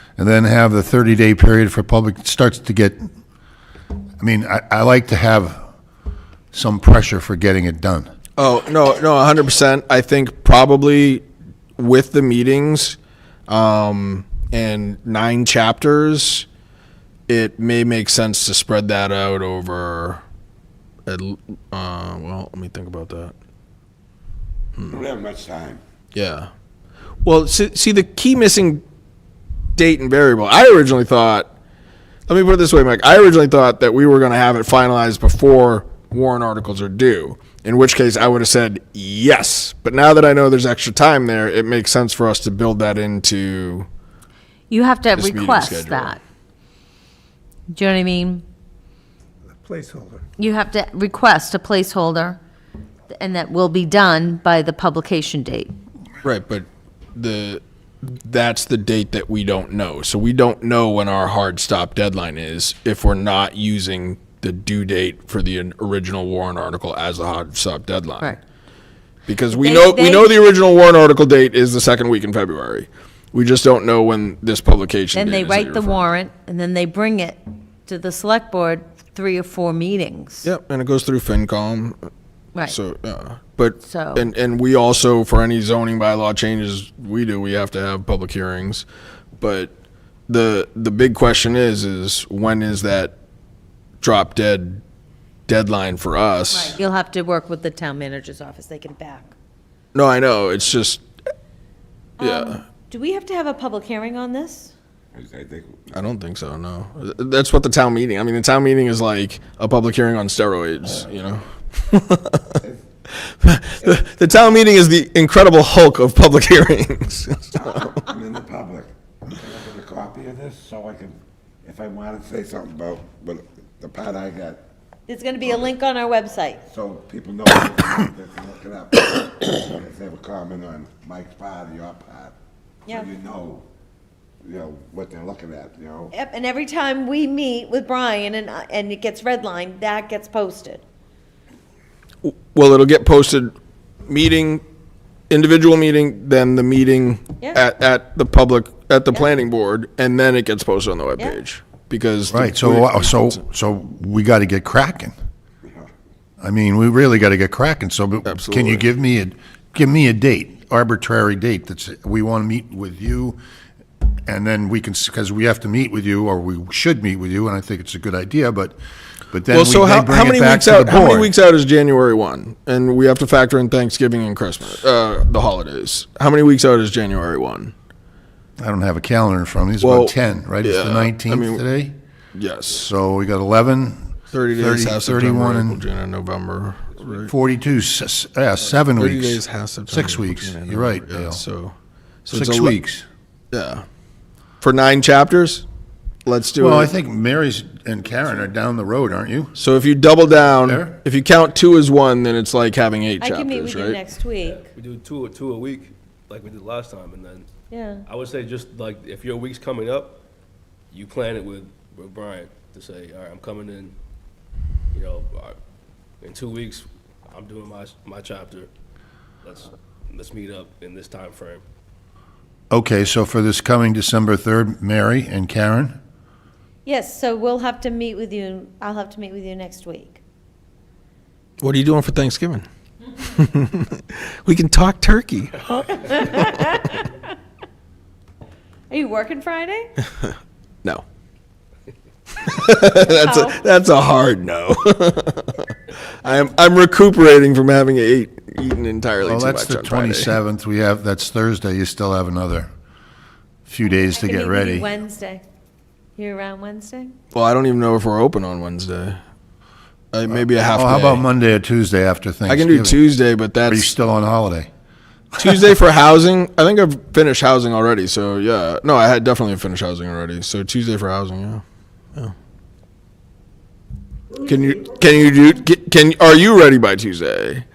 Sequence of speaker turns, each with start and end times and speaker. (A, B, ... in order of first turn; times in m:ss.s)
0:00.2-0:03.0 A
0:04.2-0:05.7 A
0:06.5-0:08.1 A
0:08.4-0:11.2 B
0:11.8-0:16.4 B
0:17.3-0:20.2 B
0:21.0-0:23.3 B
0:24.8-0:25.8 C
0:26.1-0:26.5 B
0:27.2-0:28.8 B
0:29.8-0:31.5 B
0:32.3-0:43.9 B
0:44.7-0:46.2 D
0:45.2-0:46.2 B
0:47.7-0:48.4 D
0:49.6-0:50.2 C
0:50.4-0:52.4 D
0:53.1-0:55.7 D
0:56.2-1:08.4 B
1:09.3-1:16.0 B
1:09.5-1:10.4 D
1:15.1-1:20.5 D
1:20.4-1:22.1 B
1:22.7-1:28.8 B
1:23.8-1:24.3 D
1:29.4-1:29.7 B
1:30.3-1:33.1 B
1:34.0-1:34.8 B
1:35.5-1:36.8 B
1:36.5-1:39.3 D
1:39.9-1:41.0 B
1:42.2-1:44.7 D
1:42.2-1:42.6 B
1:45.1-1:46.1 C
1:45.9-1:52.6 B
1:53.2-1:57.7 B
1:57.5-2:04.6 C
2:05.1-2:06.6 D
2:06.7-2:13.6 C
2:14.4-2:16.1 C
2:16.1-2:20.8 D
2:22.2-2:23.5 B
2:24.0-2:24.6 B
2:25.3-2:33.4 B
2:32.3-2:35.1 A
2:36.4-2:43.4 A
2:38.2-2:38.8 B
2:44.2-2:48.8 A
2:49.3-2:51.3 A
2:49.5-2:57.7 B
2:58.6-3:02.0 A
2:59.8-3:01.6 B
3:02.3-3:02.9 B
3:02.7-3:05.8 A
3:04.3-3:07.3 B
3:07.3-3:11.4 A
3:09.0-3:12.8 B
3:12.3-3:13.1 A
3:13.5-3:13.8 B
3:14.6-3:15.6 B
3:16.2-3:16.9 B
3:16.6-3:19.5 A
3:19.6-3:24.0 B
3:20.6-3:21.0 A
3:23.2-3:24.7 D
3:24.4-3:27.5 E
3:27.7-3:28.0 D
3:28.1-3:30.2 E
3:30.9-3:33.9 E
3:34.9-3:35.6 E
3:36.2-3:38.7 E
3:39.4-3:41.6 E
3:42.7-3:46.0 A
3:46.8-3:50.2 D
3:51.6-3:55.7 B
3:55.7-3:57.2 D
3:58.9-3:59.9 D
4:02.4-4:10.3 B
4:03.0-4:03.6 D
4:09.2-4:12.7 A
4:13.6-4:14.9 A
4:13.9-4:15.4 D
4:16.2-4:17.2 D
4:17.3-4:19.2 B
4:20.1-4:21.2 B
4:20.3-4:23.0 A
4:22.5-4:23.9 B
4:23.6-4:24.7 A
4:25.3-4:25.7 A
4:25.4-4:31.6 B
4:34.4-4:37.6 B